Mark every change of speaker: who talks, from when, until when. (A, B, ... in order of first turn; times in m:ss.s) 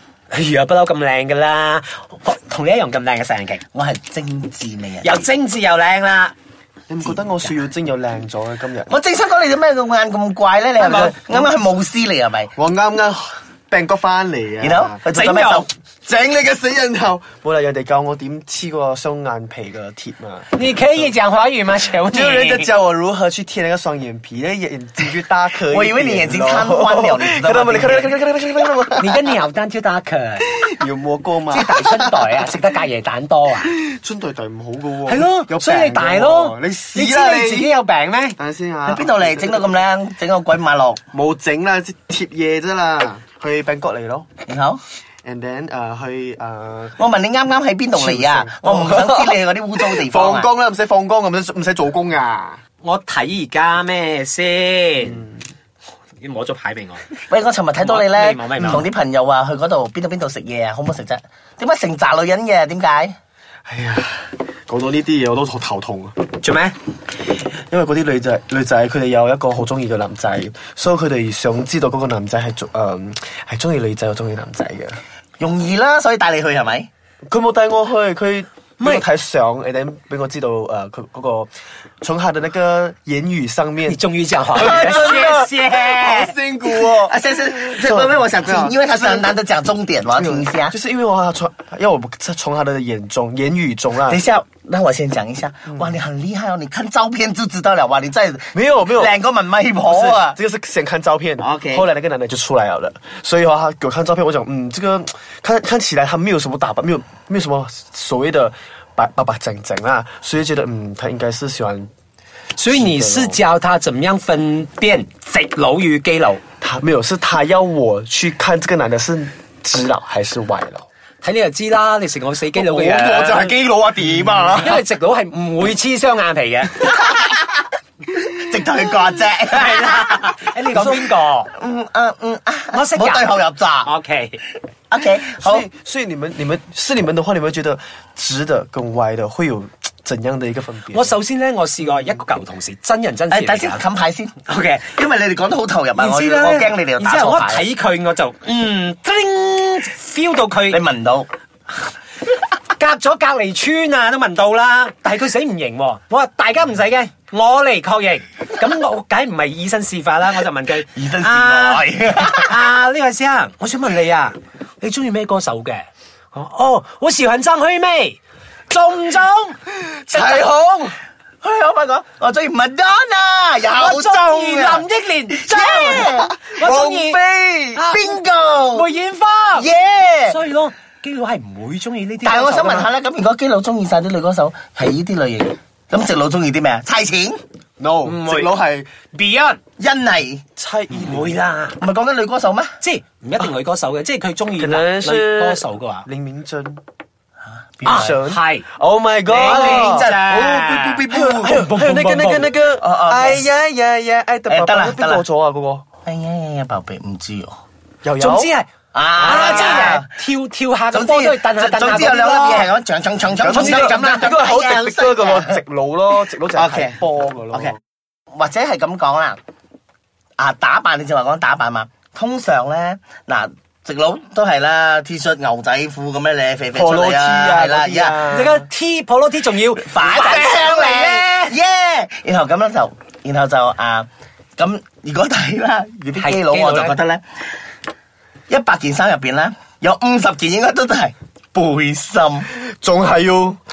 0:00.3-0:03.6 A
0:03.7-0:05.3 B
0:05.0-0:06.3 A
0:06.9-0:09.0 C
0:08.9-0:12.5 B
0:10.8-0:11.4 A
0:12.6-0:15.0 C
0:14.6-0:15.7 B
0:15.1-0:15.7 A
0:16.0-0:21.1 C
0:20.6-0:22.7 A
0:22.1-0:29.3 C
0:25.7-0:28.1 B
0:29.0-0:30.5 A
0:30.6-0:32.1 C
0:31.5-0:33.7 A
0:33.7-0:37.7 C
0:35.1-0:38.4 A
0:38.4-0:39.6 C
0:38.9-0:41.0 B
0:41.1-0:44.3 C
0:44.5-0:44.8 B
0:45.2-0:47.0 C
0:47.0-0:50.5 B
0:47.9-0:52.6 C
0:52.8-0:55.2 A
0:55.0-0:55.4 C
0:56.2-0:57.0 A
0:57.3-1:03.2 B
0:57.8-0:58.9 A
1:03.7-1:06.2 C
1:06.4-1:06.8 A
1:07.7-1:15.0 C
1:15.4-1:16.9 B
1:17.3-1:21.5 C
1:18.8-1:19.0 A
1:22.0-1:24.0 C
1:23.9-1:26.4 A
1:24.5-1:29.3 C
1:26.8-1:30.7 B
1:30.2-1:34.2 C
1:34.0-1:40.4 B
1:38.5-1:39.2 C
1:39.9-1:51.9 C
1:41.4-1:41.9 B
1:52.6-1:56.4 A
1:52.7-1:53.4 C
1:56.6-2:00.9 C
2:01.2-2:03.6 A
2:02.5-2:04.8 C
2:04.6-2:06.9 A
2:06.8-2:07.4 B
2:08.1-2:13.9 B
2:09.6-2:11.5 A
2:10.7-2:11.0 C
2:12.7-2:14.4 A
2:14.9-2:15.7 B
2:15.3-2:21.2 C
2:20.9-2:23.8 A
2:23.3-2:27.6 B
2:24.5-2:24.9 A
2:26.0-2:30.8 A
2:30.7-2:31.3 B
2:32.8-2:48.2 A
2:41.0-2:42.6 B
2:48.7-2:49.6 A
2:49.8-2:51.0 C
2:50.1-2:50.5 B
2:51.4-2:56.4 B
2:53.7-2:57.2 A
2:56.1-2:57.8 C
2:57.7-2:59.7 A
2:57.9-2:58.9 B
2:59.6-3:00.4 B
3:00.3-3:02.9 A
3:02.2-3:07.4 B
3:07.8-3:08.9 C
3:08.0-3:08.5 A
3:09.1-3:09.6 A
3:09.8-3:10.4 B
3:10.6-3:11.4 C
3:10.9-3:11.8 A
3:11.8-3:12.8 B
3:12.8-3:16.1 A
3:14.6-3:16.8 C
3:17.5-3:18.2 B
3:17.8-3:18.6 A
3:17.9-3:25.8 C
3:19.3-3:22.5 A
3:19.3-3:21.6 B
3:22.8-3:23.5 B
3:24.5-3:25.2 B
3:26.0-3:27.6 B
3:28.0-3:28.5 C
3:28.2-3:32.7 A
3:28.9-3:30.1 B
3:30.9-3:35.6 B
3:33.4-3:37.8 C
3:33.5-3:34.0 A
3:36.6-3:37.0 B
3:37.5-3:37.8 B
3:38.3-3:39.4 B
3:40.4-3:48.2 B
3:46.7-3:48.7 C
3:48.3-3:51.6 A
3:49.8-3:57.2 B
3:56.2-3:57.0 A
3:58.5-4:02.5 B
4:02.5-4:03.6 C